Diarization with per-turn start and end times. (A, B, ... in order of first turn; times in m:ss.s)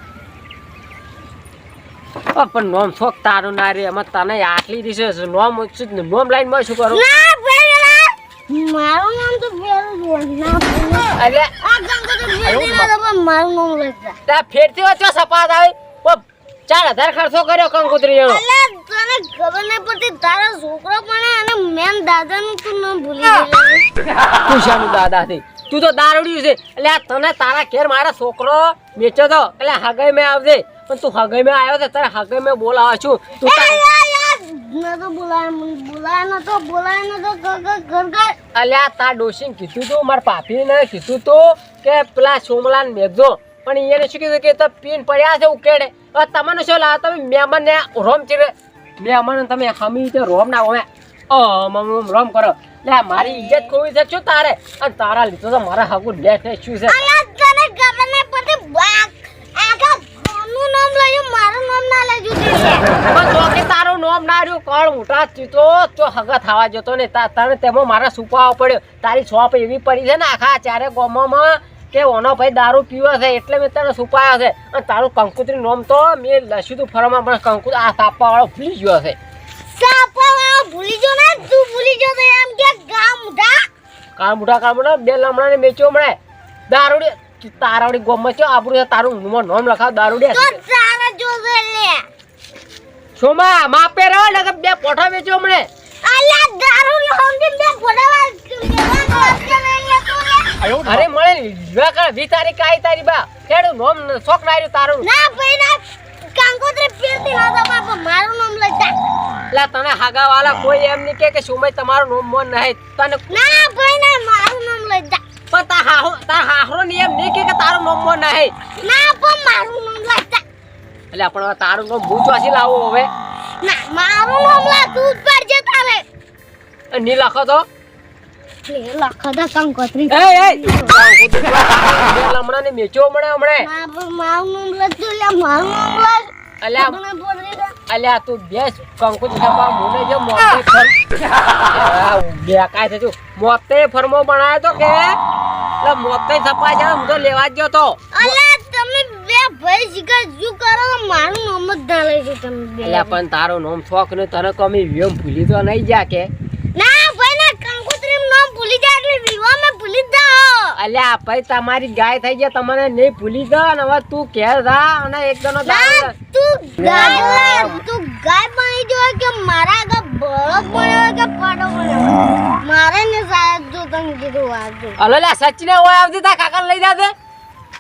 0:02.3-0:07.0 A
0:06.9-0:14.2 B
0:11.2-0:11.5 A
0:12.4-0:12.9 A
0:14.3-0:18.4 A
0:18.2-0:23.8 B
0:24.5-0:33.8 A
0:33.4-0:38.4 B
0:38.5-0:57.0 A
0:53.2-0:53.7 B
0:56.9-1:02.8 B
1:03.1-1:19.2 A
1:19.7-1:23.7 B
1:24.2-1:26.2 A
1:26.7-1:30.6 A
1:30.3-1:32.0 B
1:33.2-1:35.7 A
1:36.0-1:40.5 B
1:40.8-1:45.1 A
1:45.0-1:48.9 B
1:49.5-1:53.4 A
1:53.3-1:55.2 B
1:55.5-1:58.5 A
1:58.8-2:00.4 B
2:01.1-2:03.1 A
2:03.6-2:06.0 B
2:06.9-2:07.6 A
2:08.6-2:11.0 B
2:10.1-2:13.7 A
2:13.6-2:17.7 B
2:16.6-2:17.0 A
2:17.9-2:21.0 A
2:21.7-2:25.1 A
2:25.8-2:28.4 A
2:28.1-2:33.2 B
2:32.8-2:36.3 A
2:36.7-2:40.8 B
2:40.8-2:46.1 A
2:45.6-2:55.0 B
2:46.8-2:47.8 A
2:55.0-2:57.1 A